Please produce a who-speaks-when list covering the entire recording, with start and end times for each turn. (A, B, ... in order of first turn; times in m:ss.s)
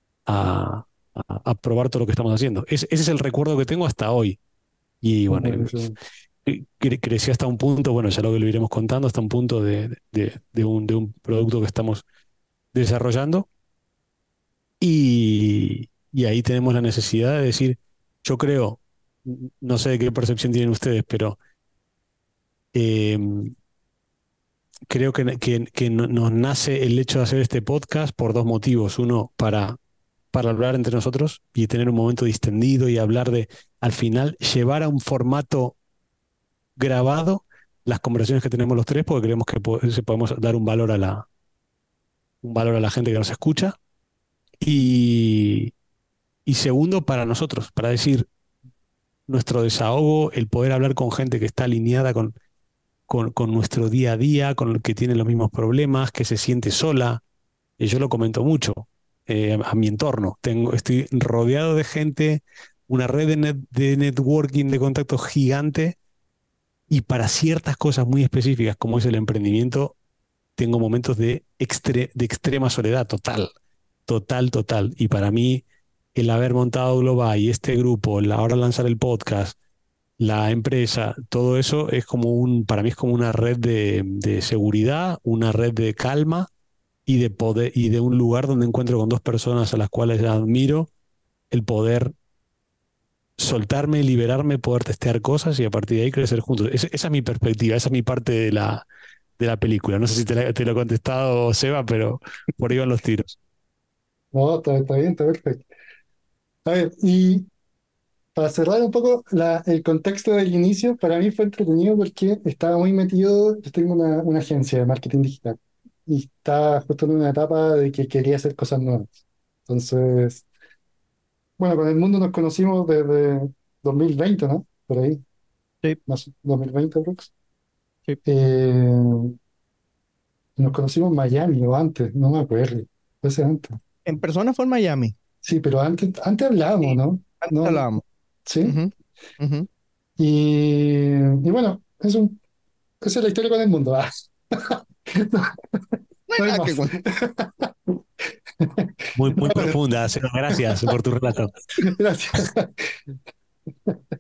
0:00.3-0:04.4 A
0:05.0-0:05.8 A
0:05.3-0:06.0 B
0:06.5-0:12.0 A
0:12.7-0:13.5 A
0:14.8-0:21.4 A
0:22.7-0:23.5 A
0:24.9-0:29.8 A
0:30.3-0:35.8 A
0:36.8-0:41.3 A
0:42.4-0:43.8 A
0:44.6-0:45.7 A
0:46.5-0:48.3 A
0:49.3-0:52.3 A
0:53.1-0:57.2 A
0:57.8-1:06.0 A
1:06.9-1:10.0 A
1:10.6-1:13.5 A
1:14.1-1:15.6 A
1:16.2-1:19.6 A
1:20.2-1:26.5 A
1:27.1-1:30.9 A
1:31.5-1:32.1 A
1:33.4-1:38.8 A
1:39.4-1:43.4 A
1:44.3-1:45.6 B
1:46.6-1:47.5 B
1:48.4-1:59.1 B
1:59.7-2:00.5 B
2:01.6-2:05.2 B
2:06.1-2:07.3 B
2:08.2-2:09.3 B
2:10.6-2:13.8 B
2:14.0-2:15.2 C
2:15.4-2:17.8 B
2:16.8-2:18.0 C
2:18.5-2:18.8 B
2:18.6-2:19.7 C
2:20.2-2:22.4 B
2:23.0-2:25.5 B
2:26.3-2:27.0 C
2:26.4-2:27.7 B
2:28.6-2:29.8 B
2:29.2-2:31.5 A
2:30.5-2:30.9 B
2:31.8-2:33.0 B